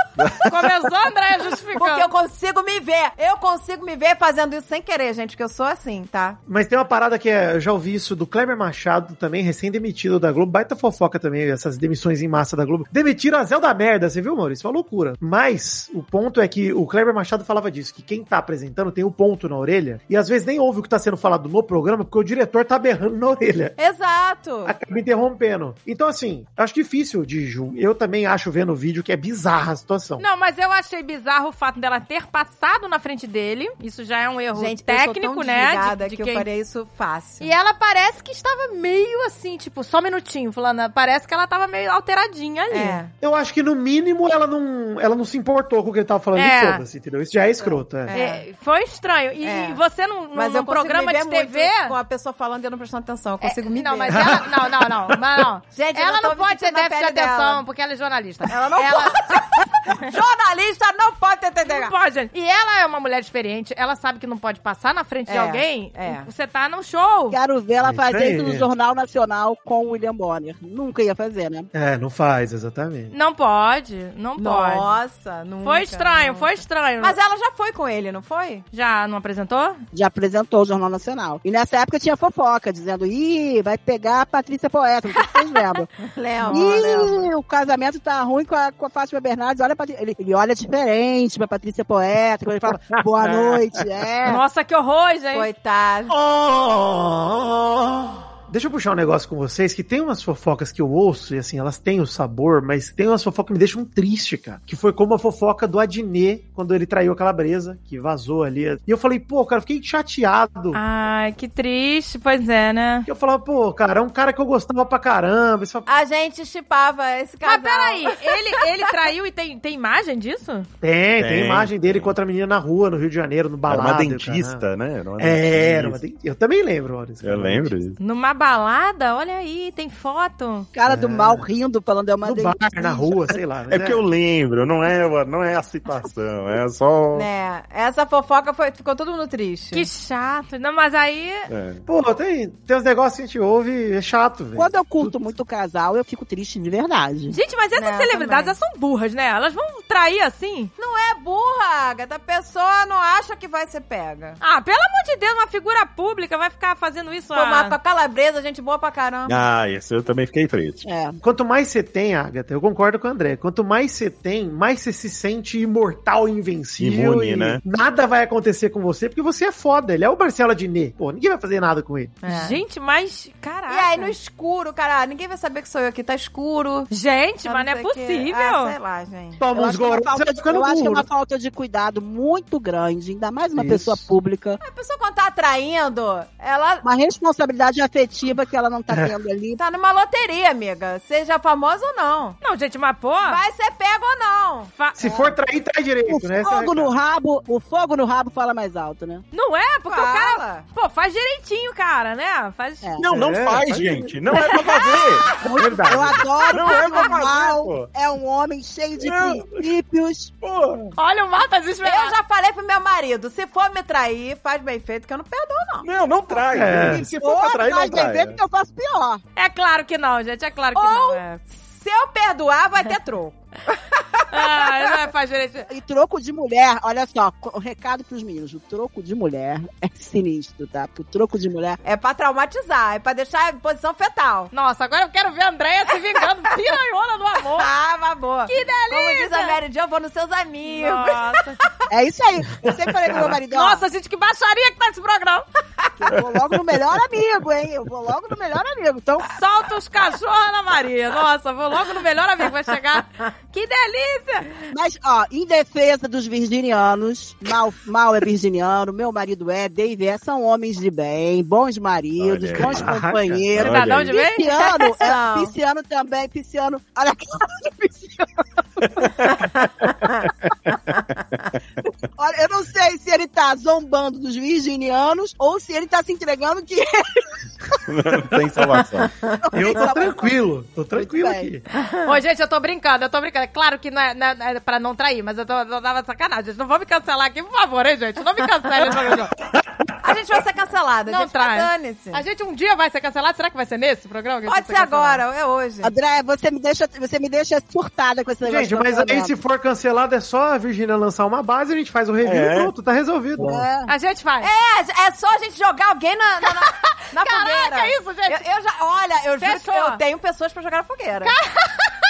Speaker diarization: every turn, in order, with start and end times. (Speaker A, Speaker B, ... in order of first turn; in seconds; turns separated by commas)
Speaker A: 0.2-0.5, Speaker B: 0.5-2.1, Speaker C: 1.8-6.4, Speaker D: 6.5-23.8, Speaker C: 23.8-24.7, Speaker D: 24.6-30.2, Speaker B: 30.2-36.5, Speaker C: 34.5-37.5, Speaker B: 37.4-43.0, Speaker C: 42.7-43.1, Speaker D: 43.2-48.1, Speaker B: 46.3-46.8, Speaker C: 47.6-48.4, Speaker B: 48.1-52.0, Speaker C: 49.4-49.8, Speaker C: 50.3-54.3, Speaker B: 53.4-60.0, Speaker D: 54.1-55.2, Speaker C: 55.7-57.6, Speaker C: 58.5-61.9, Speaker B: 61.6-67.4, Speaker C: 65.3-66.2, Speaker E: 67.3-71.7, Speaker D: 67.8-68.7, Speaker D: 71.7-73.1, Speaker B: 73.1-74.9, Speaker C: 74.4-76.5, Speaker B: 75.6-77.2, Speaker C: 77.0-78.6, Speaker B: 78.7-79.8, Speaker E: 79.9-85.9, Speaker B: 85.2-85.6, Speaker C: 86.0-87.3, Speaker E: 86.5-94.4, Speaker B: 94.2-95.5, Speaker C: 95.3-96.1, Speaker D: 96.1-110.8, Speaker B: 110.7-113.1, Speaker D: 113.1-115.9, Speaker C: 115.9-118.4, Speaker B: 117.4-120.7, Speaker D: 120.8-124.6, Speaker A: 121.2-122.1, Speaker A: 123.7-126.0, Speaker D: 125.2-127.8, Speaker A: 127.2-128.0, Speaker B: 128.0-130.7, Speaker E: 130.7-133.4, Speaker D: 130.9-131.4, Speaker D: 132.2-134.0, Speaker A: 133.7-137.3, Speaker C: 137.1-139.9, Speaker B: 139.7-141.5, Speaker A: 141.5-141.8, Speaker D: 141.8-145.2, Speaker E: 144.5-147.3, Speaker B: 147.3-150.7, Speaker C: 147.8-148.5, Speaker C: 150.8-154.4, Speaker B: 154.4-157.8, Speaker C: 157.3-159.4, Speaker A: 159.3-160.8, Speaker E: 160.8-161.2, Speaker D: 161.2-172.2, Speaker A: 166.8-167.6, Speaker C: 172.2-172.6, Speaker B: 172.2-174.1, Speaker C: 173.7-176.9, Speaker B: 176.9-178.8, Speaker C: 177.4-179.4, Speaker D: 179.4-181.1, Speaker E: 179.5-184.6, Speaker D: 183.6-184.1, Speaker C: 184.6-186.8, Speaker E: 186.8-189.6, Speaker C: 189.6-192.4, Speaker B: 192.4-193.4, Speaker C: 193.2-194.7, Speaker B: 194.8-195.2, Speaker D: 195.0-196.9, Speaker E: 196.1-199.2, Speaker B: 199.3-202.9, Speaker C: 199.8-200.6, Speaker A: 203.0-205.4, Speaker D: 203.1-204.4, Speaker D: 205.3-206.2, Speaker E: 205.3-210.3, Speaker A: 206.5-207.9, Speaker A: 209.0-209.6, Speaker A: 210.4-210.9, Speaker B: 211.0-212.1, Speaker C: 211.8-215.9, Speaker A: 215.8-218.4, Speaker D: 216.5-217.0, Speaker E: 216.9-219.2, Speaker B: 219.3-221.4, Speaker C: 220.7-224.9, Speaker B: 224.3-225.7, Speaker E: 225.7-231.8, Speaker C: 231.8-234.5, Speaker B: 234.5-237.7, Speaker C: 237.6-241.3, Speaker B: 238.5-239.6, Speaker B: 240.7-241.6, Speaker E: 241.9-243.8, Speaker B: 243.5-245.4, Speaker E: 246.0-249.3, Speaker B: 249.3-254.5, Speaker E: 254.7-269.0, Speaker A: 262.2-263.0, Speaker D: 262.6-263.4, Speaker A: 263.5-264.1, Speaker B: 263.6-264.5, Speaker C: 264.5-265.5, Speaker A: 268.8-269.4, Speaker C: 269.2-269.7, Speaker A: 270.6-271.0, Speaker E: 272.2-277.8, Speaker A: 277.9-279.1, Speaker E: 279.4-280.4, Speaker D: 279.5-281.6, Speaker E: 280.9-281.5, Speaker C: 281.8-282.0, Speaker B: 282.0-289.3, Speaker D: 288.8-290.4, Speaker C: 290.0-292.2, Speaker B: 291.1-295.2, Speaker C: 294.4-295.9, Speaker E: 295.8-299.3, Speaker D: 298.4-303.6, Speaker A: 302.2-302.7, Speaker E: 303.4-303.9, Speaker B: 303.9-304.5, Speaker C: 304.4-311.3, Speaker B: 306.6-308.4, Speaker B: 309.4-310.0, Speaker B: 311.2-311.9